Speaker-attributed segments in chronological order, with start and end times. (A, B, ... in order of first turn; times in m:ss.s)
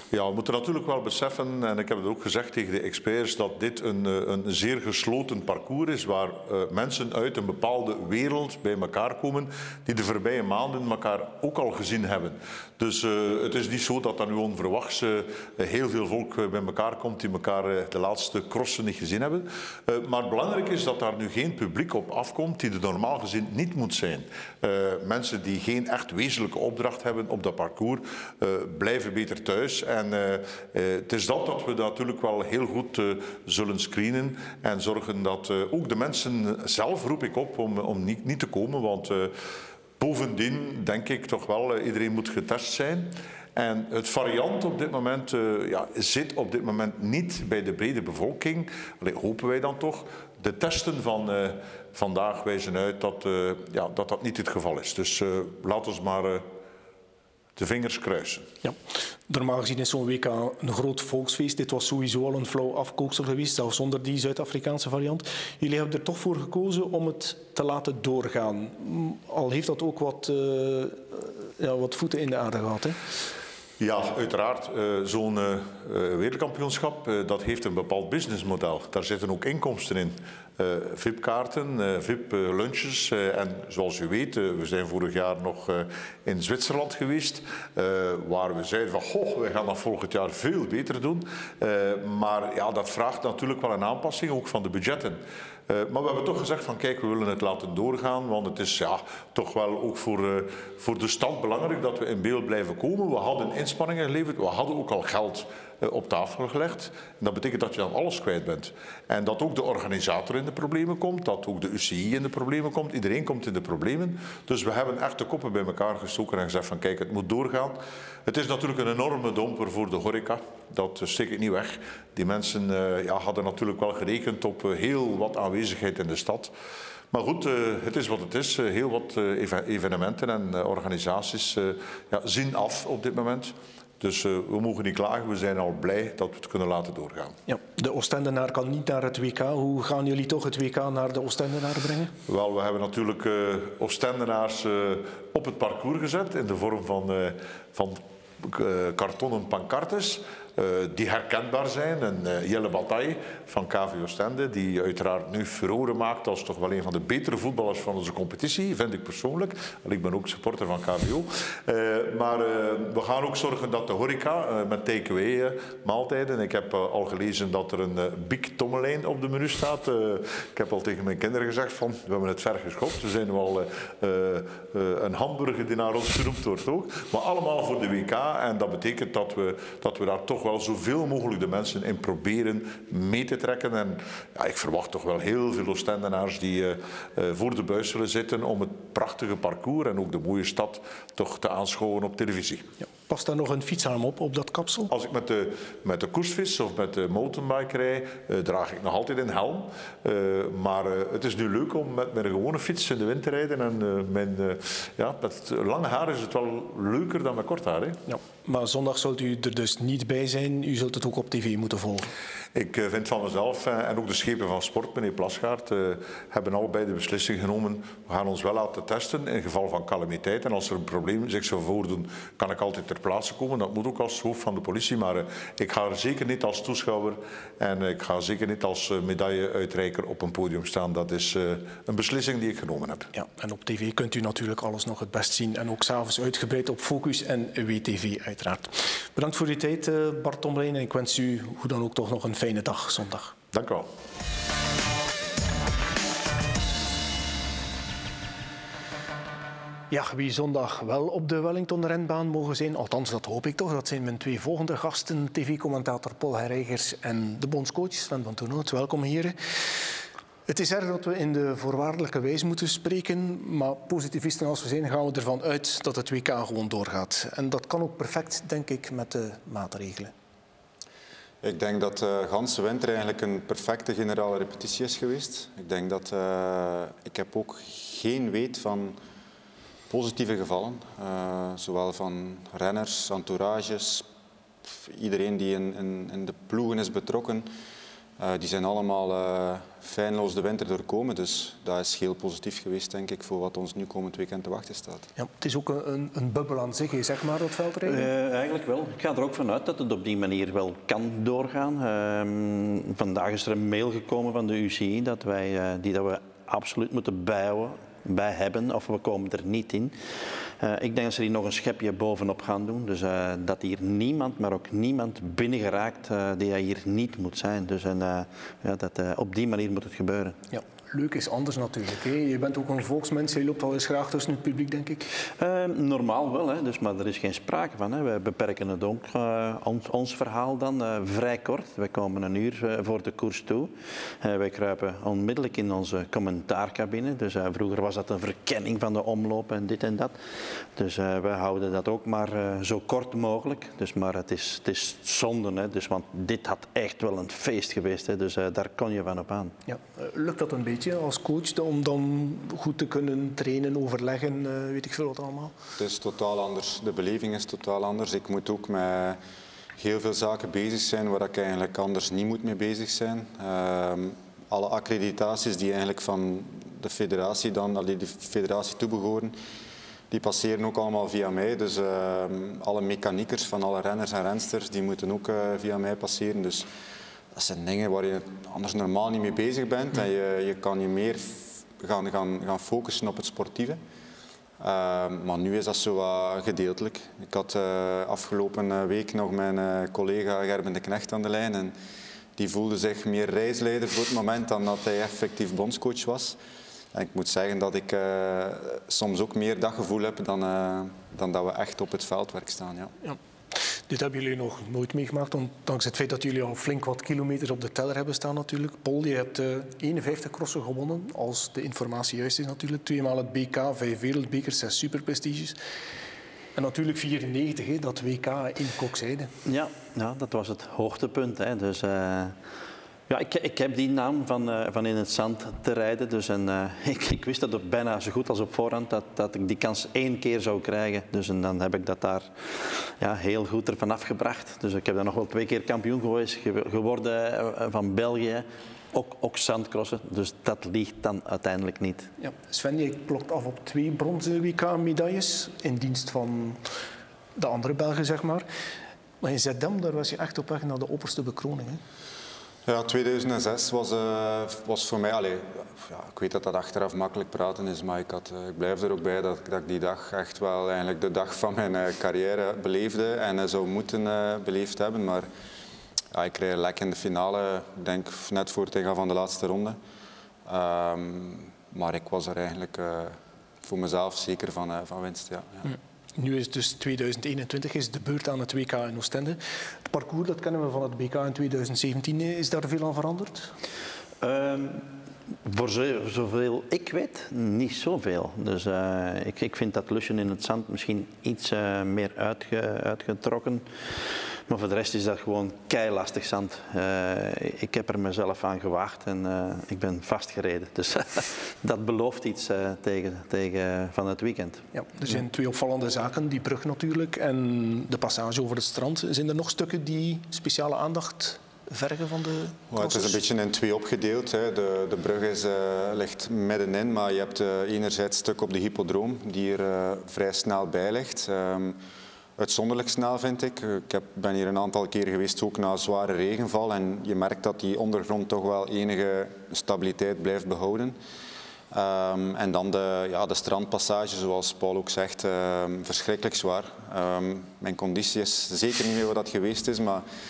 0:00.1-0:39.3 A
0:40.0-0:56.4 A
0:57.6-0:58.5 A
0:58.6-1:13.0 B
1:13.8-2:06.5 A
2:07.1-2:17.3 A
2:17.5-2:22.1 B
2:22.3-3:12.7 A
3:13.0-3:14.9 B
3:14.9-3:28.0 A
3:28.1-3:32.1 B
3:32.5-3:53.1 A
3:53.1-4:03.3 B
4:03.5-4:03.9 A
4:09.9-4:19.3 B
4:20.5-4:30.1 B
4:31.4-4:39.0 C
4:39.9-4:44.1 C
4:44.7-4:47.5 C
4:48.2-4:55.1 C
4:55.2-4:58.1 B
4:57.8-5:20.4 D
5:20.5-5:25.0 B
5:25.4-5:49.5 D
5:49.7-5:55.5 B
5:55.8-5:59.2 C
5:59.8-6:09.3 C
6:10.1-6:16.7 C
6:17.3-6:23.8 C
6:24.6-6:31.7 C
6:32.4-6:36.4 C
6:36.9-6:42.9 C
6:43.0-6:55.6 B
6:56.5-6:59.3 B
6:59.4-7:02.4 D
7:03.1-7:22.1 D
7:22.2-7:26.6 B
7:27.4-7:28.4 B
7:29.2-7:31.8 B
7:32.6-7:45.3 C
7:46.1-7:49.8 C
7:50.4-7:55.7 C
7:55.7-8:03.5 B
8:04.2-8:04.9 D
8:05.4-8:24.7 D
8:24.7-8:33.1 B
8:32.7-8:41.8 C
8:42.4-8:51.0 C
8:51.7-9:00.0 C